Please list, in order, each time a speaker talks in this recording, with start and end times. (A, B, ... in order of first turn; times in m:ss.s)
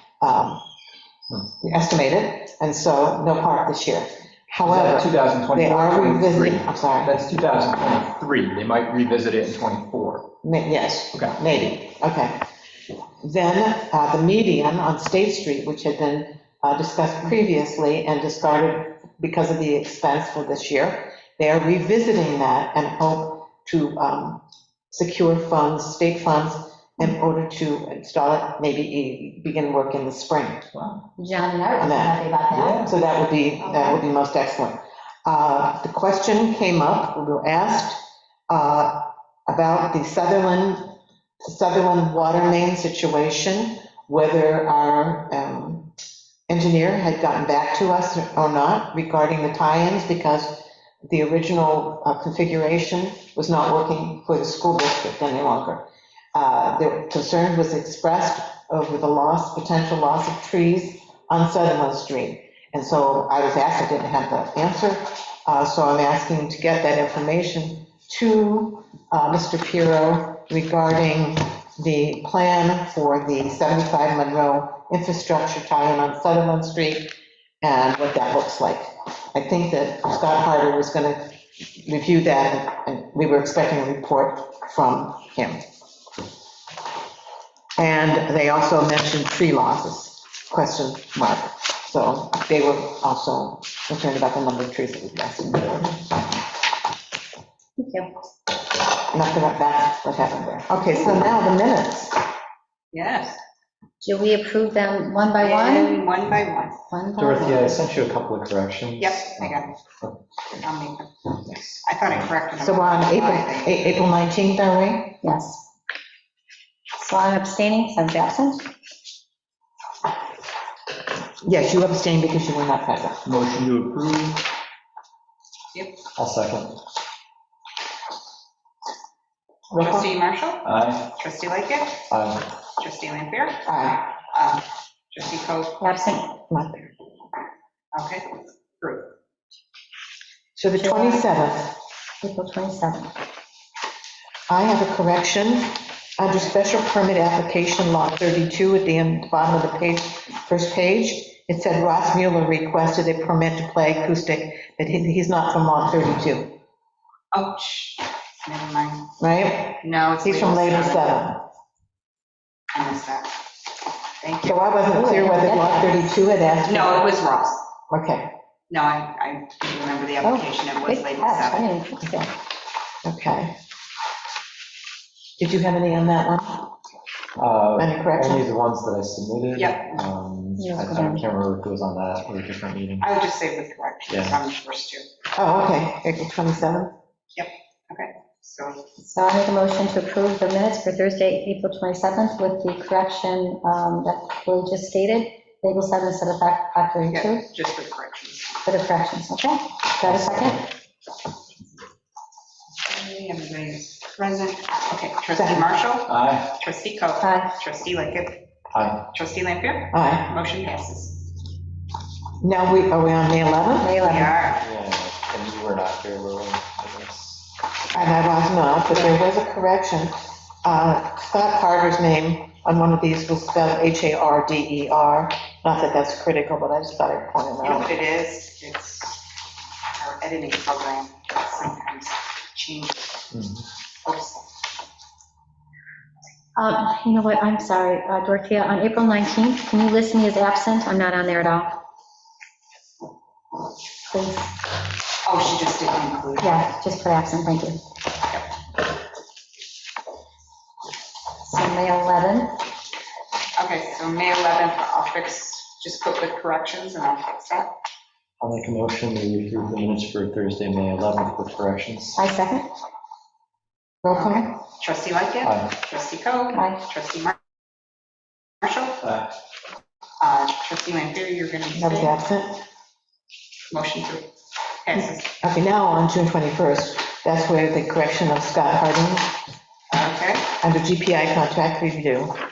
0:00.2-0:00.6 A
0:01.6-0:07.2 A
0:04.6-0:10.3 B
0:10.4-0:12.4 A
0:13.2-0:30.9 A
0:31.2-0:32.8 C
0:31.8-0:45.9 A
0:33.6-0:34.0 C
0:46.5-1:25.6 A
1:27.8-1:36.1 A
1:37.8-1:38.1 C
1:39.1-1:42.2 A
1:42.9-1:43.4 D
1:44.0-1:46.1 C
1:45.4-1:46.8 D
1:46.9-1:47.8 C
1:47.2-1:50.2 E
1:49.0-1:49.8 D
1:50.6-1:51.3 D
1:51.5-1:51.8 E
1:51.8-1:53.8 D
1:52.6-1:55.2 A
1:55.2-1:55.6 C
1:57.0-1:58.7 C
2:01.4-2:03.2 A
2:03.3-2:04.4 B
2:06.2-2:06.8 E
2:09.7-2:10.1 A
2:09.7-2:12.0 D
2:10.6-2:11.1 E
2:12.1-2:12.4 E
2:12.8-2:13.6 D
2:13.6-2:14.1 A
2:14.3-2:15.9 D
2:15.8-2:16.3 C
2:16.5-2:16.9 A
2:17.9-2:18.3 D
2:18.8-2:19.1 D
2:20.6-2:21.7 A
2:20.8-2:21.2 C
2:22.2-2:23.1 C
2:24.5-2:36.5 A
2:37.3-2:39.1 D
2:39.2-2:41.4 A
2:39.8-2:41.2 D
2:42.7-2:43.4 D
2:44.2-2:44.7 D
2:44.4-2:47.2 A
2:44.9-2:46.3 C
2:46.6-2:47.6 D
2:47.9-2:48.3 A
2:48.7-2:51.7 D
2:50.2-2:52.3 C
2:53.0-2:53.5 A
2:55.4-2:56.6 A
2:57.4-3:03.1 E
2:57.8-2:58.4 A
2:59.5-3:00.0 D
3:00.6-3:01.2 C
3:03.0-3:05.1 D
3:04.1-3:04.4 E
3:05.3-3:06.9 A
3:07.3-3:08.8 D
3:09.0-3:17.4 C
3:17.1-3:18.7 D
3:18.6-3:20.6 C
3:20.0-3:20.7 E
3:22.8-3:28.4 D
3:25.3-3:25.7 A
3:26.0-3:26.5 E
3:27.2-3:27.5 C
3:28.7-3:29.0 E
3:29.1-3:31.2 D
3:29.9-3:30.3 A
3:32.4-3:33.9 A
3:33.8-3:34.4 C
3:34.0-3:34.6 D
3:34.6-3:37.5 E
3:37.9-3:47.9 A
3:47.6-3:49.3 D
3:49.9-3:53.4 D
3:53.3-3:53.6 E
3:54.0-3:54.5 D
3:56.6-4:01.8 C
4:04.1-4:04.5 C
4:05.2-4:06.6 D
4:06.4-4:07.8 C
4:11.4-4:12.6 C
4:13.6-4:17.7 D
4:18.4-4:22.2 E
4:22.2-4:22.7 C
4:24.0-4:24.5 A
4:24.1-4:27.4 D
4:25.4-4:25.7 E
4:26.5-4:26.8 C
4:28.6-4:29.0 D
4:29.0-4:29.3 E
4:30.2-4:32.1 D
4:31.7-4:32.6 A
4:33.7-4:34.3 D
4:34.8-4:35.3 D
4:35.4-4:39.3 A
4:39.9-4:40.5 D
4:40.6-4:42.4 A